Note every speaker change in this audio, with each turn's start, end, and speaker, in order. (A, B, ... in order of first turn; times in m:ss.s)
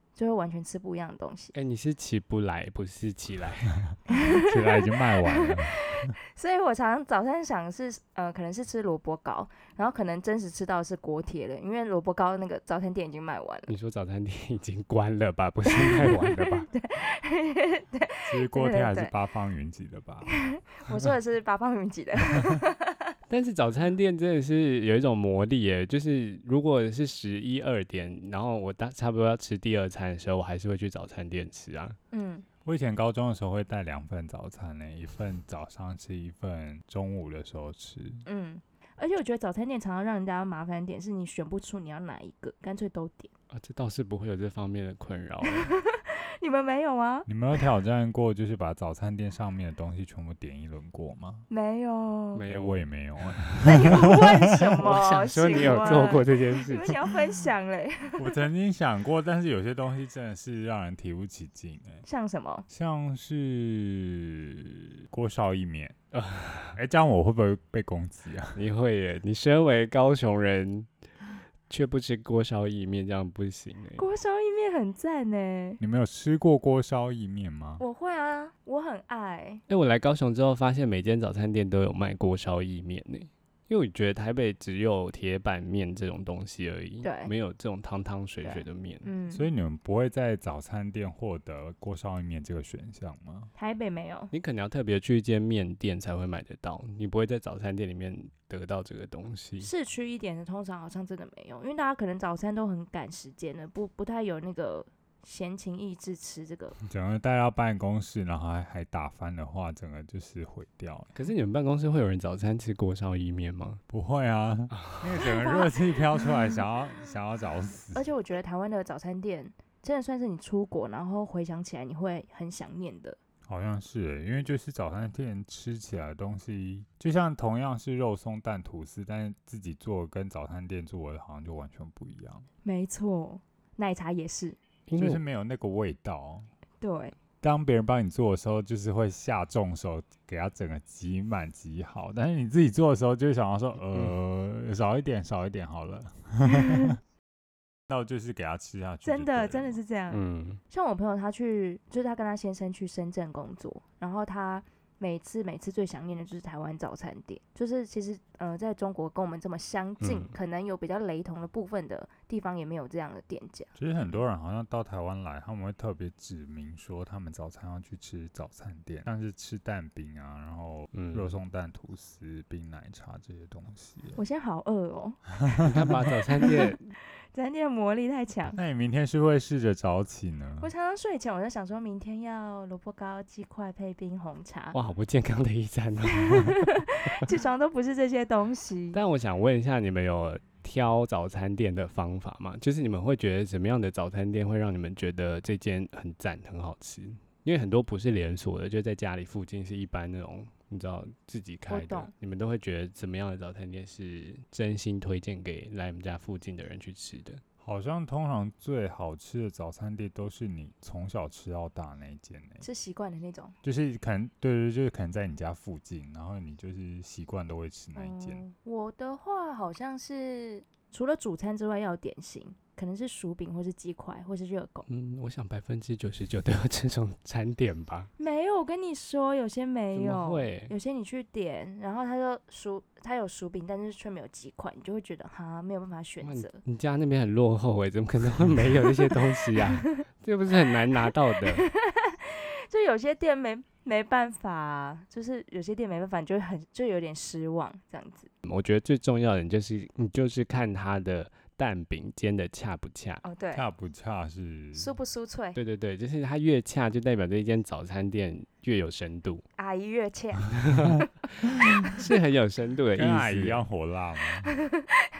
0:00.2-0:01.5 A
0:01.5-0:03.8 B
0:04.1-0:13.7 A
0:04.4-0:06.1 C
0:13.7-0:16.7 B
0:15.7-0:19.1 A
0:18.3-0:20.3 C
0:20.3-0:23.1 A
0:23.3-0:32.0 B
0:32.1-0:32.4 A
0:32.6-0:38.2 C
0:38.2-0:43.3 A
0:43.5-0:45.7 B
0:45.4-0:47.3 A
0:47.2-0:51.5 C
0:51.5-0:52.4 A
0:52.3-0:52.8 B
0:52.5-0:54.9 C
0:53.6-0:58.2 A
0:53.9-0:57.0 B
0:58.2-1:02.0 C
1:02.0-1:02.6 A
1:02.7-1:06.0 C
1:06.1-1:06.8 B
1:06.7-1:08.6 C
1:08.5-1:10.9 B
1:11.7-1:14.0 B
1:14.0-1:15.8 A
1:15.8-1:17.8 C
1:17.8-1:19.6 A
1:19.7-1:29.1 B
1:27.0-1:27.3 A
1:28.4-1:29.5 A
1:29.3-1:33.5 C
1:33.6-1:34.3 A
1:34.3-1:39.7 B
1:39.6-1:46.8 A
1:46.9-1:51.2 C
1:51.2-1:53.8 B
1:53.9-1:58.1 C
1:54.8-1:55.0 B
1:55.2-1:55.7 A
1:57.9-2:03.2 A
2:03.5-2:12.5 C
2:12.6-2:14.6 A
2:14.9-2:15.2 B
2:15.0-2:16.5 C
2:16.8-2:17.2 A
2:17.4-2:27.0 C
2:26.5-2:26.9 A
2:27.9-2:29.8 C
2:29.0-2:43.7 A
2:30.1-2:30.6 B
2:40.0-2:40.3 B
2:43.8-2:54.2 C
2:50.9-2:51.4 B
2:54.2-2:55.7 A
2:55.4-2:56.0 C
2:55.7-2:56.9 B
2:56.4-2:56.7 A
2:57.3-2:58.6 A
2:58.5-3:00.7 C
3:00.6-3:04.8 A
3:04.7-3:06.7 B
3:06.1-3:09.0 A
3:08.9-3:27.4 B
3:21.7-3:22.1 A
3:27.6-3:32.6 C
3:32.6-3:33.5 A
3:33.6-3:38.4 C
3:38.0-3:44.8 A
3:44.9-3:48.1 B
3:48.2-3:56.6 A
3:49.9-3:50.7 B
3:56.2-4:01.6 B
3:59.6-4:00.0 A
4:01.0-4:08.3 A
4:08.4-4:13.2 B
4:13.2-4:13.6 A
4:13.5-4:14.9 C
4:14.8-4:15.6 A
4:15.5-4:19.4 B
4:19.6-4:21.1 A
4:20.6-4:23.6 B
4:23.0-4:24.5 C
4:24.5-4:25.0 A